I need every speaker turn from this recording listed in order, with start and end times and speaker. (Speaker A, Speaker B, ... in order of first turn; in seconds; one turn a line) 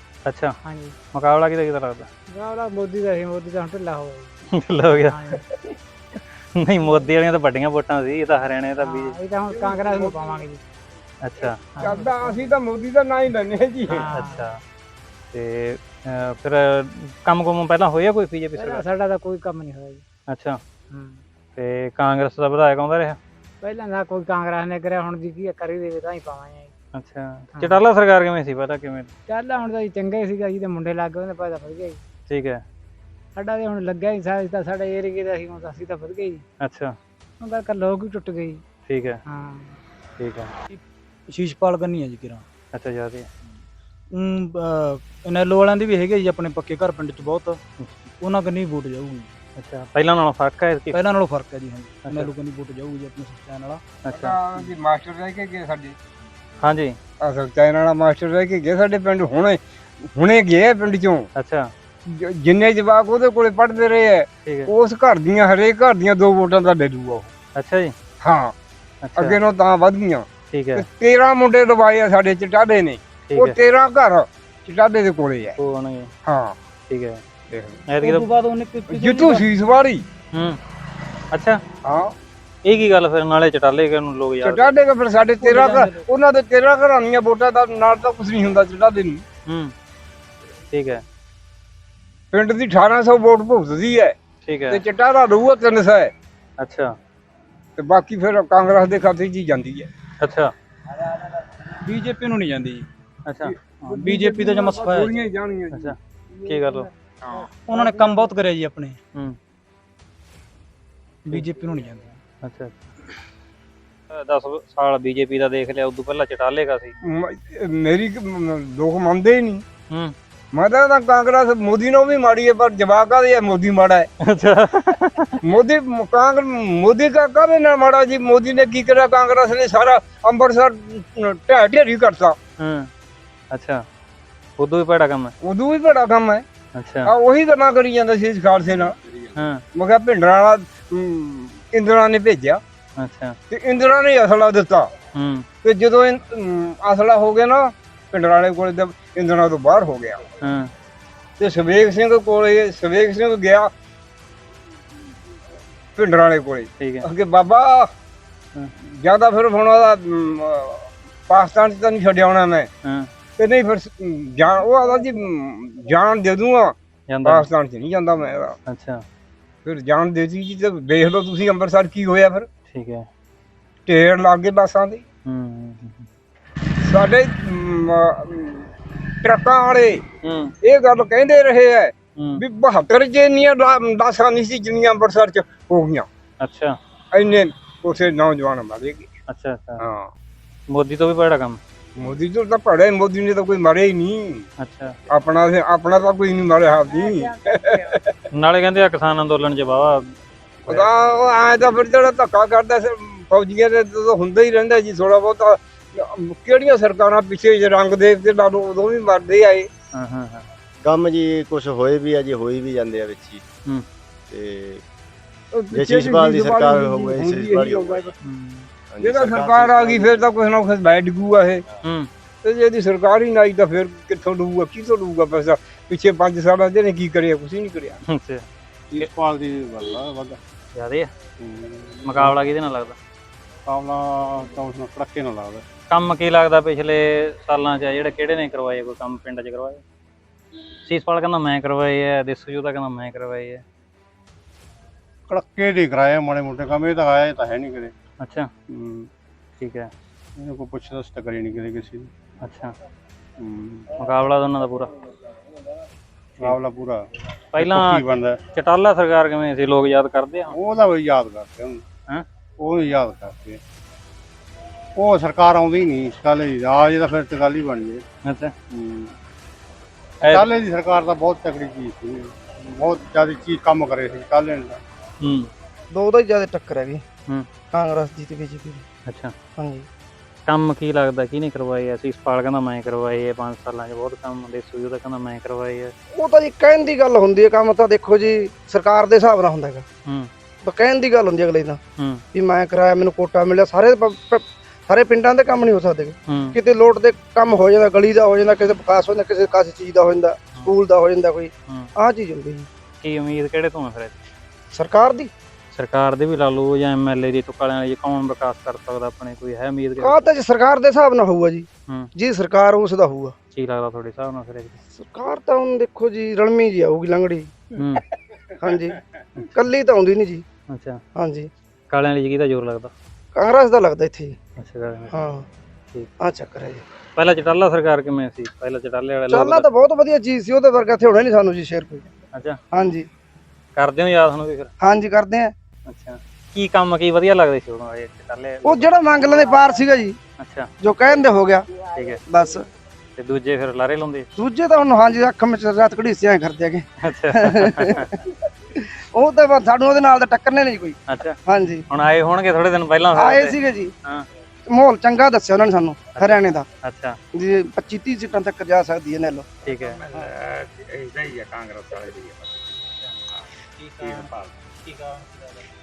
Speaker A: 0.3-0.6
Speaker B: 0.6-0.9
Speaker A: 1.1-2.1
Speaker B: 2.3-4.3
Speaker A: 4.5-5.2
Speaker B: 5.0-5.4
Speaker A: 6.5-9.1
Speaker B: 8.8-10.6
Speaker C: 9.9-10.1
Speaker A: 11.2-11.6
Speaker B: 11.8-12.5
Speaker C: 11.8-14.0
Speaker B: 13.9-14.5
Speaker A: 14.1-14.6
Speaker A: 15.3-18.9
Speaker B: 18.6-20.0
Speaker A: 20.3-20.6
Speaker B: 20.9-21.2
Speaker A: 21.6-23.2
Speaker B: 23.6-26.7
Speaker A: 26.9-29.1
Speaker B: 29.3-32.0
Speaker A: 32.3-32.6
Speaker B: 33.3-36.4
Speaker A: 36.6-37.0
Speaker B: 37.4-38.6
Speaker A: 38.9-39.2
Speaker B: 39.3-39.8
Speaker A: 40.2-40.5
Speaker D: 40.7-42.5
Speaker A: 42.7-43.3
Speaker D: 44.1-47.6
Speaker D: 48.2-49.3
Speaker A: 49.6-51.0
Speaker D: 50.9-53.8
Speaker A: 52.0-52.3
Speaker A: 54.0-54.4
Speaker C: 54.1-56.0
Speaker A: 56.6-57.0
Speaker C: 57.2-61.2
Speaker A: 61.4-61.7
Speaker C: 62.1-67.3
Speaker A: 64.4-64.7
Speaker A: 67.5-67.9
Speaker C: 68.2-68.5
Speaker A: 69.0-69.4
Speaker C: 69.2-75.6
Speaker A: 70.5-70.8
Speaker A: 73.3-73.6
Speaker A: 75.6-76.1
Speaker C: 76.2-76.5
Speaker A: 76.9-77.2
Speaker C: 77.5-77.8
Speaker A: 77.9-78.3
Speaker D: 77.9-79.5
Speaker C: 78.9-80.0
Speaker A: 81.3-81.6
Speaker C: 81.8-82.1
Speaker A: 82.7-84.7
Speaker C: 84.4-89.2
Speaker D: 85.4-86.0
Speaker A: 89.5-89.7
Speaker A: 90.7-91.0
Speaker C: 92.3-94.1
Speaker A: 94.4-94.8
Speaker C: 94.7-96.1
Speaker A: 96.6-97.0
Speaker C: 97.8-99.9
Speaker A: 100.2-100.5
Speaker D: 101.8-102.8
Speaker A: 103.3-103.5
Speaker D: 103.8-105.1
Speaker C: 103.8-105.9
Speaker A: 105.7-106.9
Speaker C: 107.2-107.9
Speaker D: 107.5-109.0
Speaker D: 111.2-112.2
Speaker A: 112.4-112.8
Speaker A: 114.1-116.9
Speaker C: 117.1-119.6
Speaker A: 119.9-120.1
Speaker C: 120.5-124.1
Speaker A: 124.2-125.4
Speaker C: 125.4-132.4
Speaker A: 132.6-132.9
Speaker A: 133.5-133.8
Speaker A: 134.6-135.3
Speaker C: 135.4-136.4
Speaker A: 136.8-137.1
Speaker C: 137.1-138.9
Speaker A: 139.3-139.6
Speaker C: 139.7-142.6
Speaker A: 143.0-143.4
Speaker C: 143.5-144.9
Speaker A: 145.1-145.4
Speaker C: 145.6-150.2
Speaker A: 150.4-150.7
Speaker C: 151.4-153.7
Speaker C: 155.9-157.9
Speaker A: 156.8-157.1
Speaker C: 158.8-162.7
Speaker A: 162.8-163.1
Speaker C: 163.4-166.7
Speaker A: 167.1-167.5
Speaker C: 167.2-168.6
Speaker A: 168.7-169.0
Speaker C: 169.6-172.5
Speaker A: 172.7-173.1
Speaker C: 173.9-175.0
Speaker A: 175.2-176.1
Speaker C: 176.8-178.7
Speaker C: 179.2-180.0
Speaker A: 180.2-180.5
Speaker C: 180.6-186.1
Speaker A: 182.2-182.4
Speaker A: 186.4-186.8
Speaker C: 187.1-189.1
Speaker A: 189.3-189.8
Speaker C: 189.8-190.1
Speaker A: 190.7-191.6
Speaker C: 192.0-194.4
Speaker A: 194.6-195.0
Speaker C: 195.1-198.0
Speaker A: 198.3-200.1
Speaker C: 200.7-209.7
Speaker A: 209.9-210.4
Speaker E: 210.8-213.4
Speaker E: 214.3-214.8
Speaker C: 215.6-218.1
Speaker E: 215.7-218.1
Speaker A: 218.2-218.7
Speaker E: 218.9-220.3
Speaker C: 219.0-221.6
Speaker A: 221.8-222.1
Speaker C: 222.4-228.0
Speaker A: 228.1-228.4
Speaker F: 228.9-230.4
Speaker A: 230.7-231.1
Speaker F: 231.4-232.3
Speaker A: 232.0-233.0
Speaker F: 233.7-235.6
Speaker A: 235.9-239.8
Speaker A: 240.8-243.6
Speaker F: 245.3-247.9
Speaker A: 248.2-248.5
Speaker F: 248.7-249.1
Speaker A: 249.6-249.9
Speaker F: 250.3-252.1
Speaker A: 252.4-252.7
Speaker F: 253.4-253.9
Speaker A: 254.0-254.9
Speaker F: 256.4-257.0
Speaker A: 257.5-260.5
Speaker F: 257.6-258.4
Speaker F: 260.5-261.8
Speaker F: 262.6-263.6
Speaker F: 264.9-268.0
Speaker A: 268.2-268.5
Speaker F: 268.7-269.1
Speaker F: 270.3-274.8
Speaker A: 275.2-275.5
Speaker G: 275.9-277.0
Speaker G: 277.7-278.8
Speaker A: 279.1-279.3
Speaker G: 279.6-279.9
Speaker A: 280.5-285.9
Speaker G: 286.1-289.8
Speaker G: 290.6-291.8
Speaker A: 292.0-292.2
Speaker G: 292.3-302.7
Speaker A: 296.3-296.6
Speaker A: 303.0-304.2
Speaker G: 304.7-305.3
Speaker A: 305.7-310.2
Speaker G: 310.0-313.3
Speaker A: 313.5-314.8
Speaker G: 314.9-317.6
Speaker A: 317.7-318.0
Speaker G: 318.6-319.0
Speaker G: 319.5-320.4
Speaker A: 320.7-321.0
Speaker G: 321.1-321.5
Speaker A: 321.9-322.9
Speaker G: 323.3-324.4
Speaker A: 324.6-325.1
Speaker G: 325.1-325.5
Speaker G: 326.2-326.8
Speaker A: 327.1-329.7
Speaker G: 329.3-332.0
Speaker A: 332.3-332.6
Speaker G: 332.7-333.1
Speaker A: 333.8-334.7
Speaker G: 334.8-335.5
Speaker A: 335.9-338.9
Speaker G: 338.6-340.1
Speaker A: 340.4-340.7
Speaker G: 340.8-341.6
Speaker A: 341.9-342.2
Speaker G: 342.3-342.6
Speaker A: 343.2-344.3
Speaker G: 344.4-348.1
Speaker A: 347.0-348.1
Speaker G: 348.8-351.8
Speaker A: 351.1-354.2
Speaker G: 353.1-353.9
Speaker G: 354.7-356.6
Speaker A: 356.2-357.2
Speaker G: 357.3-359.5
Speaker H: 359.6-362.8
Speaker A: 359.6-360.0
Speaker H: 363.3-364.7
Speaker A: 363.8-364.3
Speaker A: 364.8-365.7